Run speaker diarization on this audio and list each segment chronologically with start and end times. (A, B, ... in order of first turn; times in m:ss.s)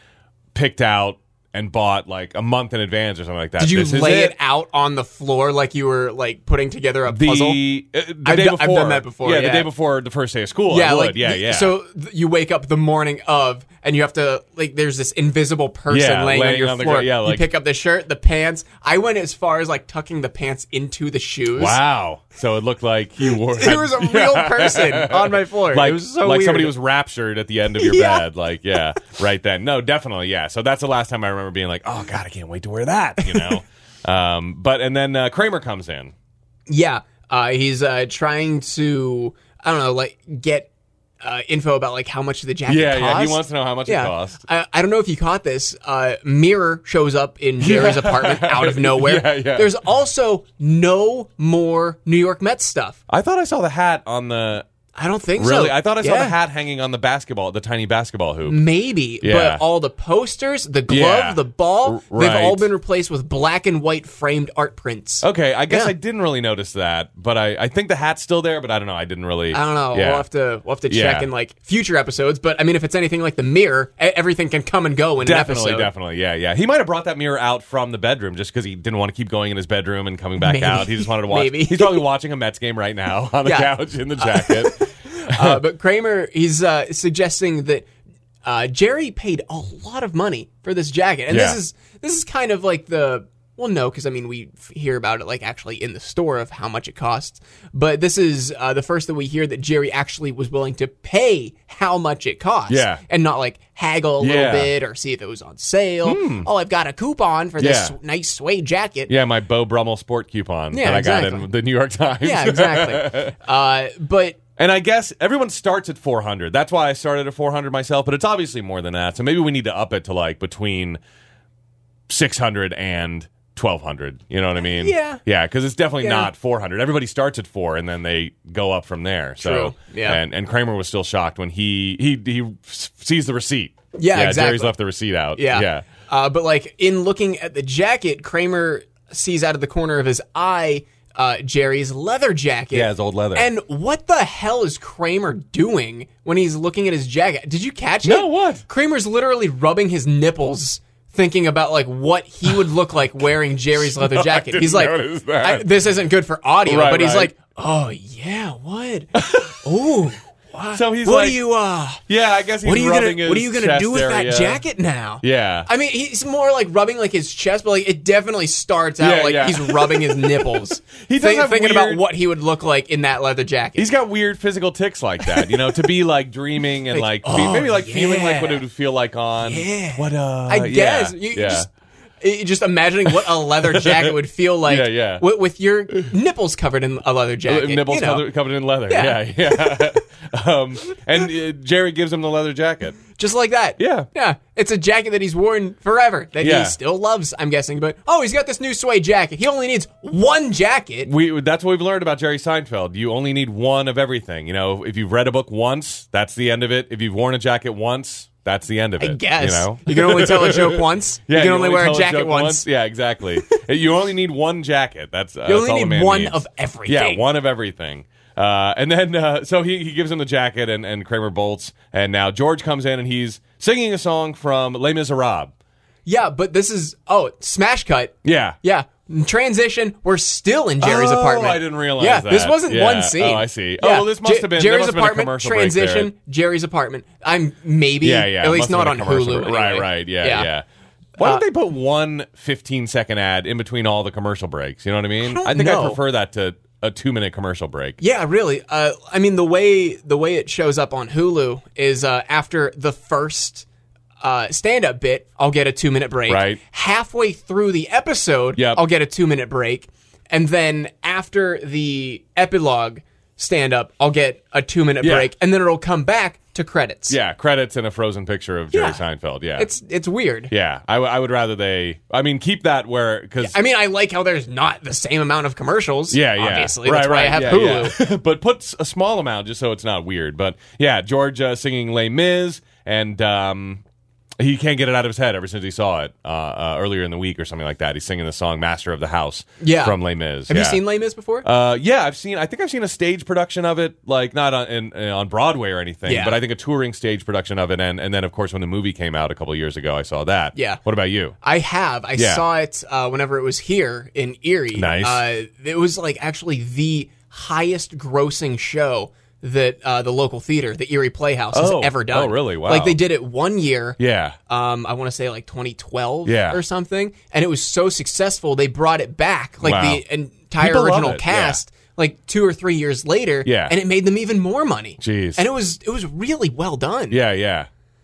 0:00.5-0:04.3 A
0:03.6-0:07.6 B
0:07.1-0:11.7 A
0:08.2-0:09.7 B
0:10.7-0:21.8 B
0:15.9-0:17.5 A
0:21.6-0:36.1 A
0:23.4-0:26.7 B
0:27.8-0:28.2 B
0:33.2-0:33.6 B
0:36.7-0:40.7 B
0:41.2-0:53.0 B
0:42.7-0:44.4 A
0:47.6-0:49.7 A
0:53.1-0:54.6 A
0:54.9-0:56.4 B
0:55.4-0:58.6 A
0:58.4-1:05.9 B
0:59.2-0:59.6 A
1:00.9-1:02.7 A
1:05.2-1:10.2 A
1:09.5-1:15.9 B
1:10.9-1:11.3 A
1:15.2-1:25.6 A
1:20.4-1:22.0 B
1:23.4-1:27.8 B
1:28.4-1:49.1 B
1:31.3-1:31.6 A
1:42.7-1:43.0 A
1:44.2-1:44.7 A
1:46.0-1:46.5 A
1:47.6-1:47.9 A
1:49.1-1:53.3 A
1:50.7-1:51.4 B
1:52.2-1:54.4 B
1:54.6-2:01.0 A
2:02.1-2:15.9 A
2:04.6-2:05.2 B
2:06.0-2:06.3 B
2:09.4-2:10.2 B
2:13.9-2:14.7 B
2:15.4-2:42.0 B
2:22.7-2:23.5 A
2:28.0-2:28.6 A
2:33.7-2:35.7 A
2:36.6-2:37.3 A
2:39.1-2:39.6 A
2:40.7-2:41.4 A
2:42.1-2:44.6 A
2:42.6-2:53.9 B
2:45.2-2:45.7 A
2:49.0-2:52.0 A
2:53.8-3:01.7 A
2:56.9-2:58.6 B
2:59.4-3:01.7 B
3:02.2-3:08.2 B
3:03.1-3:05.2 A
3:07.4-3:13.0 A
3:08.9-3:10.0 B
3:13.2-3:21.1 B
3:13.8-3:14.1 A
3:16.4-3:16.8 A
3:21.0-3:45.5 A
3:29.0-3:32.6 B
3:35.5-3:37.2 B
3:46.0-4:00.5 B
3:48.2-3:48.6 A
3:50.8-3:56.1 A
3:58.0-4:00.6 A
4:01.2-4:08.0 A
4:05.2-4:06.0 B
4:08.0-4:13.6 B
4:14.2-4:27.2 B
4:16.3-4:16.6 A
4:18.6-4:18.8 A
4:25.0-4:25.3 A
4:27.1-4:29.7 A
4:28.7-4:29.0 B
4:29.6-4:30.5 B
4:30.5-4:33.5 A
4:33.4-4:38.0 B
4:36.1-4:43.8 A
4:44.4-4:50.8 A
4:49.6-4:51.4 B
4:51.4-5:01.3 A
4:56.0-4:56.4 B
5:00.5-5:00.8 B
5:01.4-5:14.0 B
5:02.2-5:02.4 A
5:04.7-5:05.2 A
5:11.5-5:13.0 A
5:14.0-5:14.4 A
5:14.5-5:27.2 B
5:16.2-5:16.6 A
5:19.6-5:20.0 A
5:20.6-5:21.6 A
5:23.4-5:23.7 A
5:25.0-5:25.4 A
5:27.1-5:27.7 A